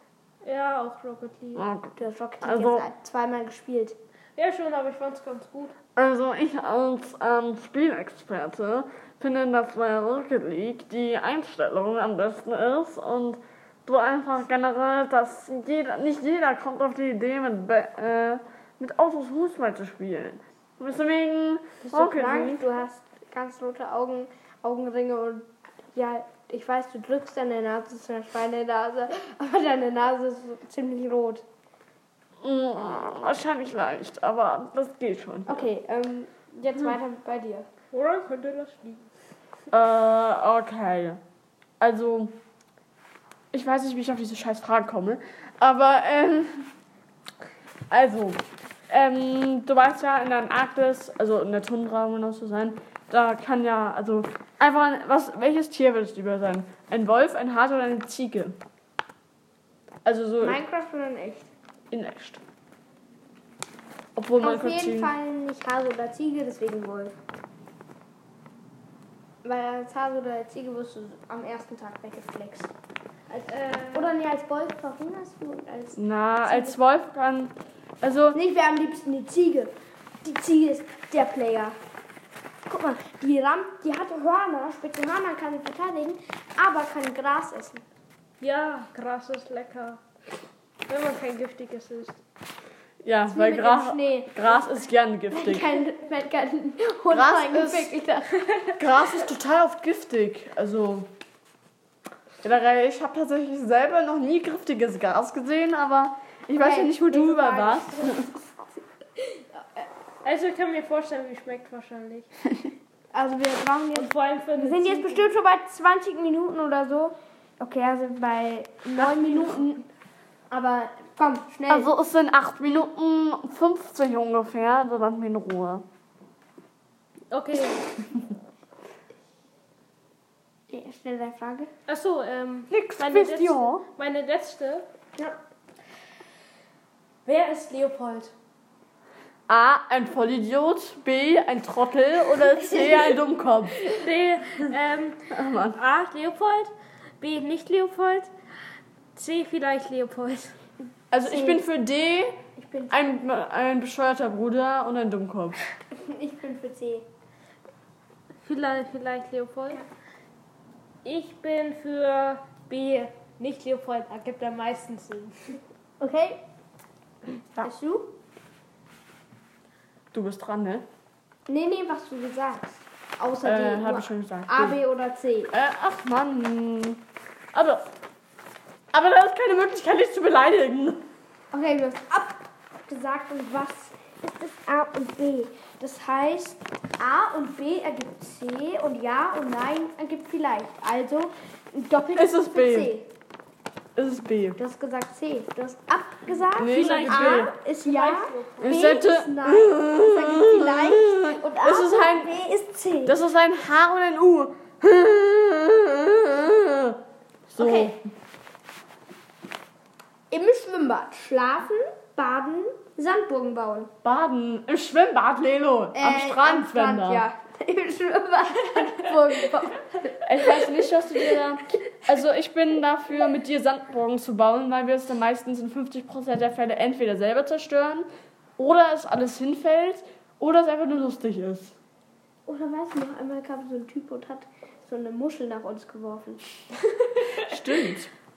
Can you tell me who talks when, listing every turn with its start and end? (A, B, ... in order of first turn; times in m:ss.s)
0:00.4-0:01.6 A
0:01.5-0:02.9 B
0:02.0-0:04.0 C
0:04.4-0:05.7 A
0:06.0-0:22.7 B
0:21.8-0:31.4 C
0:32.4-0:35.7 B
0:35.5-0:37.7 C
0:37.9-0:39.0 A
0:39.7-0:41.2 B
0:41.8-0:42.4 B
0:43.5-0:46.7 B
0:47.9-0:58.6 B
1:00.0-1:00.6 B
1:00.4-1:01.5 C
1:01.9-1:02.4 B
1:04.2-1:05.1 B
1:04.4-1:07.2 C
1:09.4-1:12.7 C
1:13.3-1:14.1 A
1:13.9-1:16.8 C
1:16.0-1:18.4 B
1:18.3-1:21.8 C
1:22.7-1:27.8 C
1:28.4-1:30.0 A
1:30.9-1:32.2 A
1:33.0-1:35.7 B
1:33.3-1:38.4 C
1:37.1-1:37.9 B
1:38.8-1:41.1 B
1:42.4-1:48.3 B
1:46.6-1:48.3 C
1:50.2-1:52.3 A
1:53.1-1:59.8 C
1:53.9-1:55.3 A
1:58.9-1:59.6 A
2:00.5-2:01.9 C
2:01.7-2:05.8 B
2:07.3-2:07.9 A
2:10.7-2:11.7 C
2:11.9-2:14.9 A
2:12.7-2:13.8 B
2:17.2-2:18.3 A
2:19.5-2:23.8 B
2:22.7-2:23.1 C
2:23.8-2:28.3 A
2:25.3-2:25.8 B
2:29.1-2:30.6 A
2:31.1-2:32.4 B
2:31.2-2:31.6 C
2:32.6-2:33.1 C
2:32.9-2:35.6 B
2:35.9-2:37.1 C
2:38.4-2:39.8 A
2:41.0-2:45.6 A
2:46.0-2:46.4 C
2:47.6-2:48.1 C
2:50.1-2:50.8 B
2:51.5-2:55.5 C
2:53.4-2:54.8 B
2:55.5-2:57.0 B
2:57.5-2:57.9 B
2:58.9-3:01.0 B
3:01.5-3:13.1 C
3:12.2-3:12.9 B
3:14.0-3:14.6 B
3:14.6-3:23.2 C
3:16.6-3:17.5 B
3:16.6-3:18.8 A
3:18.6-3:22.3 B
3:23.1-3:27.0 B
3:27.5-3:28.0 C
3:27.6-3:28.0 B
3:30.3-3:33.9 C
3:34.0-3:37.2 B
3:35.9-3:40.7 C
3:40.2-3:48.1 B
3:48.6-3:51.8 B
3:52.4-3:56.6 C
3:57.1-3:57.4 C
3:57.4-3:58.1 B